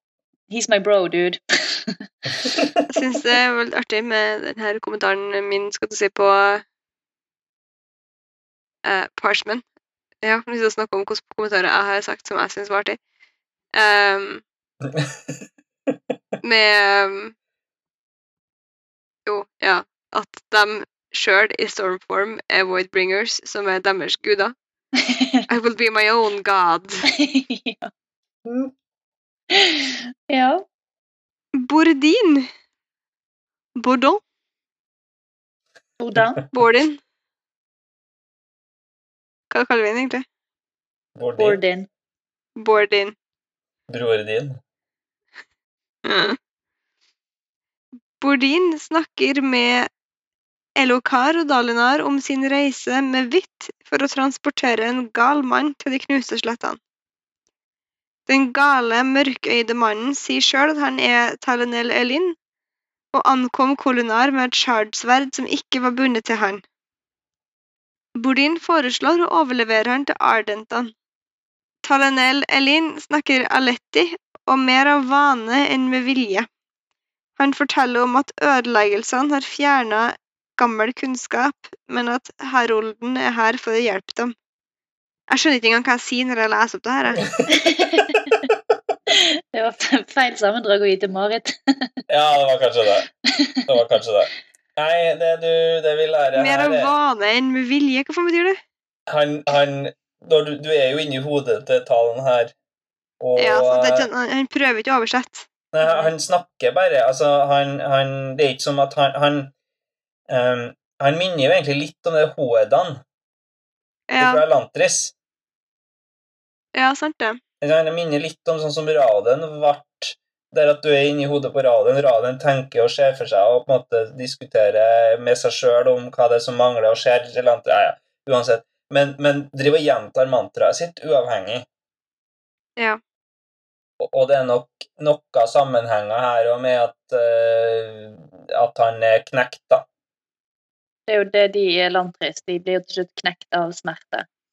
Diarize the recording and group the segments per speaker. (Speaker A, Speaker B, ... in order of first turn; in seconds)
Speaker A: 0.5-2.0, 25.0-25.4, 27.1-27.9, 29.5-30.6, 36.0-36.4, 41.4-41.9, 87.5-88.3, 89.1-91.9, 93.3-93.6, 141.1-144.2
Speaker B: 2.4-2.8, 14.8-16.0, 28.4-28.7, 36.1-36.4, 41.1-41.6, 43.9-44.6, 87.2-87.5, 92.1-93.1, 93.7-96.9, 99.1-102.5, 103.2-104.1, 105.7-109.5, 110.3-113.0, 114.2-115.1, 117.6-131.7, 134.0-139.8
Speaker C: 2.9-6.6, 8.8-9.6, 10.2-13.0, 13.7-14.4, 16.4-17.3, 19.3-24.5, 25.5-27.1, 31.5-32.5, 33.8-34.2, 36.5-37.0, 39.5-40.2, 42.6-43.1, 46.0-46.4, 48.2-49.9, 50.8-56.8, 58.3-62.4, 63.1-66.6, 68.2-70.9, 71.8-76.5, 77.4-84.3, 85.3-87.2, 96.3-98.6, 103.4-105.5, 114.1-114.4, 116.7-117.4